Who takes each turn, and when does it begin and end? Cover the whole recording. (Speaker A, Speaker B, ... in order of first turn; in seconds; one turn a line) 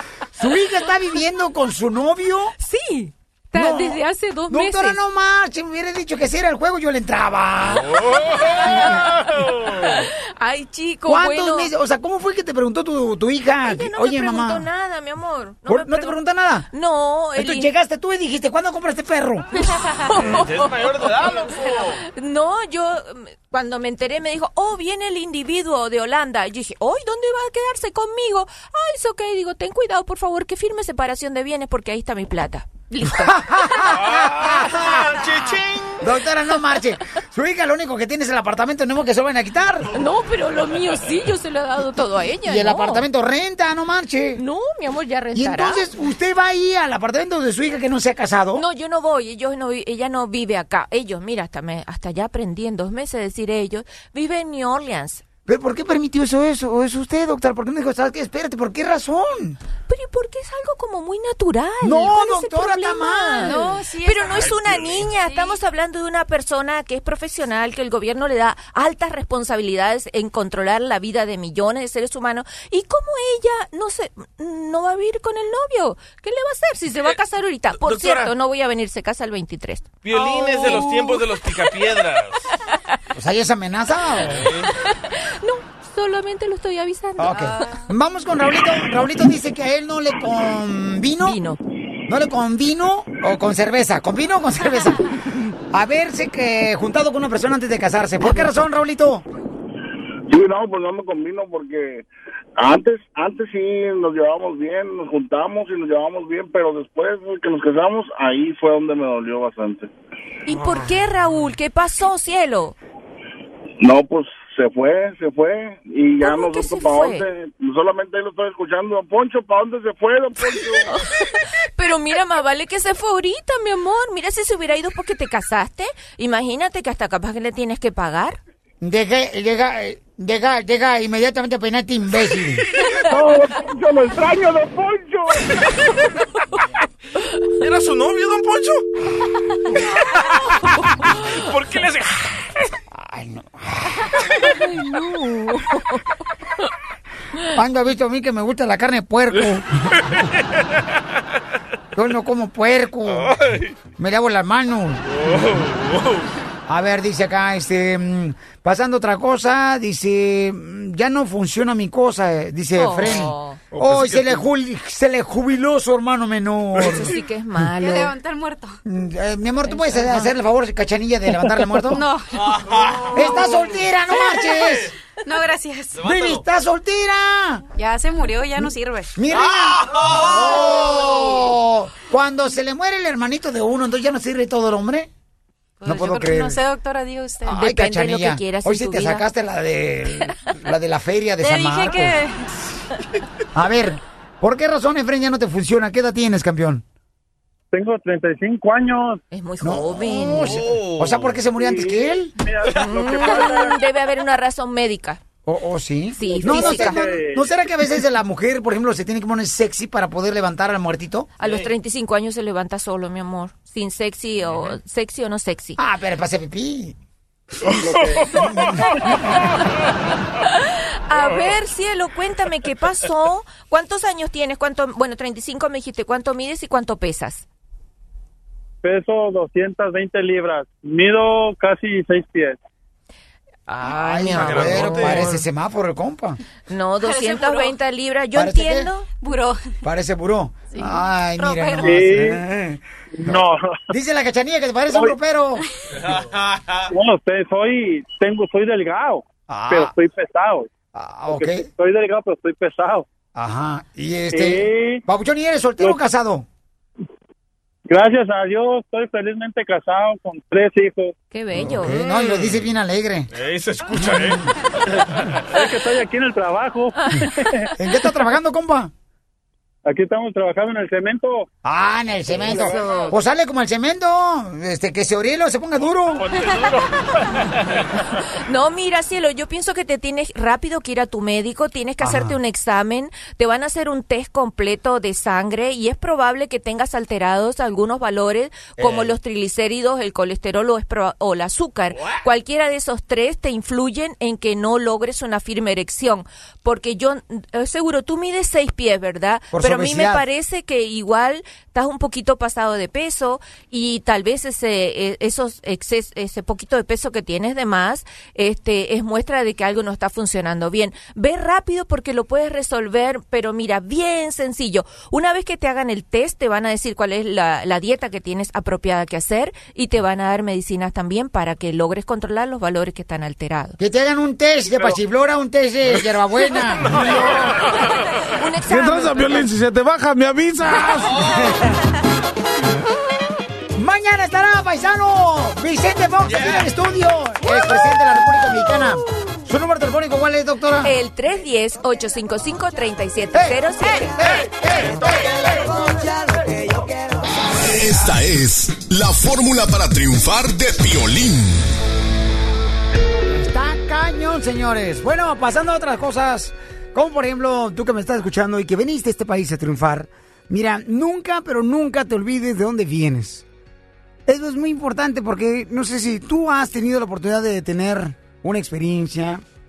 Speaker A: 0.3-2.5
Speaker B: 2.6-5.0
Speaker A: 3.5-9.0
Speaker C: 7.7-10.0
Speaker B: 10.0-11.7
Speaker A: 11.1-14.7
Speaker B: 13.6-16.2
Speaker A: 15.7-16.7
Speaker B: 16.7-17.7
Speaker A: 17.3-19.6
Speaker B: 19.6-21.2
Speaker C: 20.4-22.0
Speaker B: 21.9-33.9
Speaker A: 33.0-34.9
Speaker C: 33.9-36.1
Speaker A: 36.0-39.9
Speaker B: 39.9-43.0
Speaker A: 42.4-44.4
Speaker B: 44.3-45.9
Speaker A: 45.3-48.6
Speaker B: 48.5-55.2
Speaker A: 55.5-59.6
Speaker B: 59.9-81.8
Speaker A: 61.8-63.6
Speaker D: 63.4-64.4
Speaker C: 64.3-65.2
Speaker D: 65.2-65.6
Speaker C: 77.7-78.3
Speaker C: 80.0-82.4
Speaker D: 80.2-80.6
Speaker A: 83.1-84.4
Speaker C: 84.2-84.7
Speaker B: 84.8-87.7
Speaker A: 87.2-91.4
Speaker B: 91.2-91.6
Speaker A: 92.1-99.2
Speaker E: 100.3-102.0
Speaker E: 102.6-109.9
Speaker B: 110.5-112.7
Speaker C: 110.5-111.0
Speaker E: 113.8-120.9
Speaker B: 116.2-117.2
Speaker B: 120.9-128.4
Speaker A: 128.8-132.7
Speaker E: 133.0-135.5
Speaker C: 137.6-138.8
Speaker C: 141.2-142.4
Speaker A: 142.9-144.5
Speaker B: 144.6-145.7
Speaker A: 147.5-149.7
Speaker C: 149.4-150.3
Speaker A: 151.9-153.3
Speaker C: 153.1-153.7
Speaker A: 154.0-155.0
Speaker C: 155.1-156.3
Speaker A: 156.7-167.2
Speaker B: 162.7-163.6
Speaker C: 163.7-164.5
Speaker C: 166.8-167.0
Speaker B: 166.9-168.1
Speaker D: 167.7-168.8
Speaker A: 168.8-172.0
Speaker B: 169.7-170.3
Speaker D: 171.8-173.4
Speaker C: 172.3-173.7
Speaker A: 173.1-174.9
Speaker D: 174.1-174.5
Speaker D: 175.2-176.0
Speaker C: 175.9-176.4
Speaker A: 176.0-177.6
Speaker D: 177.7-179.1
Speaker A: 179.1-185.1
Speaker C: 179.4-180.2
Speaker D: 185.8-187.6
Speaker A: 185.8-186.6
Speaker A: 187.4-192.2
Speaker B: 187.5-189.2
Speaker D: 191.4-192.5
Speaker A: 193.5-196.8
Speaker F: 197.7-199.2
Speaker B: 199.3-200.6
Speaker A: 199.6-202.3
Speaker C: 200.4-201.5
Speaker F: 202.4-202.9
Speaker C: 202.6-203.4
Speaker B: 202.8-205.2
Speaker A: 205.4-211.3
Speaker B: 206.1-207.2
Speaker B: 211.4-215.8
Speaker C: 211.4-211.7
Speaker C: 214.4-214.8
Speaker A: 215.8-216.9
Speaker C: 217.9-218.5
Speaker A: 218.3-218.8
Speaker B: 220.5-227.4
Speaker F: 228.8-232.5
Speaker A: 233.8-236.4
Speaker C: 233.9-235.4
Speaker B: 236.7-239.1
Speaker D: 237.0-237.8
Speaker A: 238.3-238.9
Speaker D: 239.2-239.8
Speaker A: 239.8-245.6
Speaker D: 240.7-242.1
Speaker F: 241.8-242.3
Speaker F: 243.2-243.5
Speaker C: 245.9-246.9
Speaker F: 247.0-250.6
Speaker A: 249.5-249.9
Speaker A: 250.9-251.7
Speaker F: 251.8-253.0
Speaker A: 253.3-256.4
Speaker F: 257.9-261.1
Speaker B: 261.3-262.1
Speaker A: 261.5-263.3
Speaker C: 262.0-262.7
Speaker C: 263.3-264.5
Speaker F: 265.6-266.9
Speaker B: 267.1-267.3
Speaker A: 267.7-268.9
Speaker F: 269.9-271.4
Speaker A: 271.6-276.3
Speaker C: 272.5-273.0
Speaker C: 276.2-277.8
Speaker B: 278.4-323.8
Speaker A: 282.0-282.4
Speaker A: 288.8-289.1
Speaker A: 299.5-300.2
Speaker A: 323.8-327.5
Speaker C: 326.8-328.0
Speaker B: 328.4-329.5
Speaker C: 331.0-331.3
Speaker A: 333.8-341.0
Speaker C: 336.3-336.6
Speaker B: 340.8-344.2
Speaker A: 343.3-347.9
Speaker G: 347.6-351.7
Speaker A: 353.3-363.4
Speaker A: 364.2-369.4